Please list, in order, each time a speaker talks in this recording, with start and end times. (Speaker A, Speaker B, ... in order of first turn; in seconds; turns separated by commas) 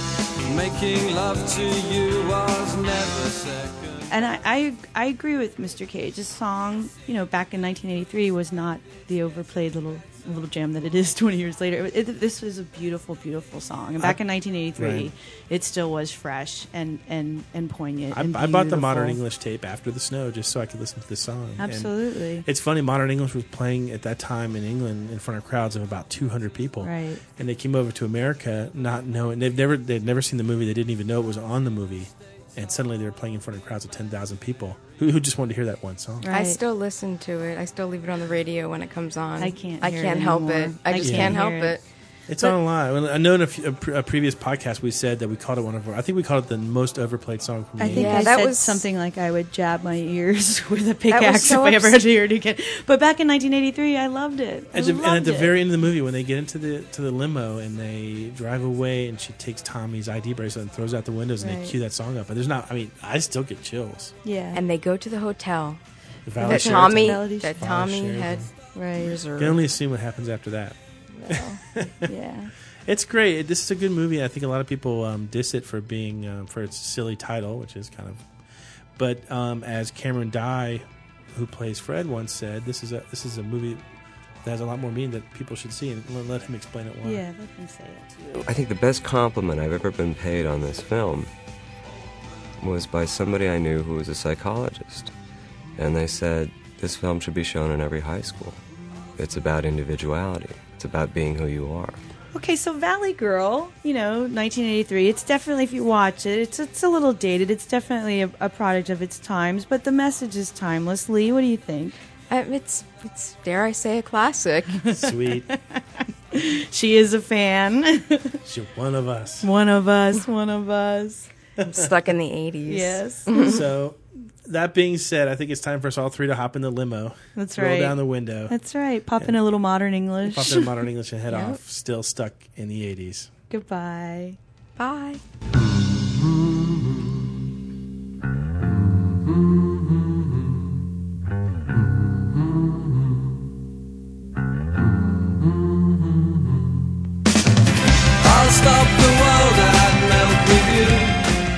Speaker A: 0.5-4.2, Speaker B: 4.1-19.2, Speaker C: 14.8-15.1, Speaker C: 18.1-36.3, Speaker B: 21.6-22.4, Speaker B: 26.8-27.2, Speaker B: 36.2-36.6, Speaker D: 36.3-41.8, Speaker B: 39.4-41.8, Speaker C: 41.0-41.4, Speaker C: 42.3-48.5, Speaker B: 47.8-55.6, Speaker D: 47.9-48.9, Speaker D: 51.1-52.0, Speaker C: 54.7-64.1, Speaker B: 61.4-61.8, Speaker B: 64.2-64.6, Speaker D: 64.5-65.8, Speaker C: 66.3-68.5, Speaker B: 66.4-67.6, Speaker D: 66.4-69.6, Speaker B: 68.7-69.2, Speaker C: 69.4-70.8, Speaker B: 71.1-72.5, Speaker C: 71.3-72.1, Speaker C: 72.8-78.2, Speaker C: 79.0-83.8, Speaker C: 84.4-87.2, Speaker B: 87.0-88.4, Speaker E: 88.5-91.3, Speaker E: 92.6-95.1, Speaker E: 95.8-98.6, Speaker E: 99.2-102.0, Speaker B: 102.3-112.0, Speaker D: 112.3-114.8, Speaker C: 114.9-115.5, Speaker B: 114.9-118.4, Speaker C: 118.4-119.5, Speaker B: 119.4-121.3, Speaker C: 121.6-121.9, Speaker D: 121.7-123.6, Speaker B: 122.7-123.6, Speaker C: 123.3-128.6, Speaker B: 127.3-130.7, Speaker C: 130.2-133.3, Speaker D: 131.3-131.6, Speaker B: 133.5-134.4, Speaker D: 134.8-135.2, Speaker A: 148.2-151.2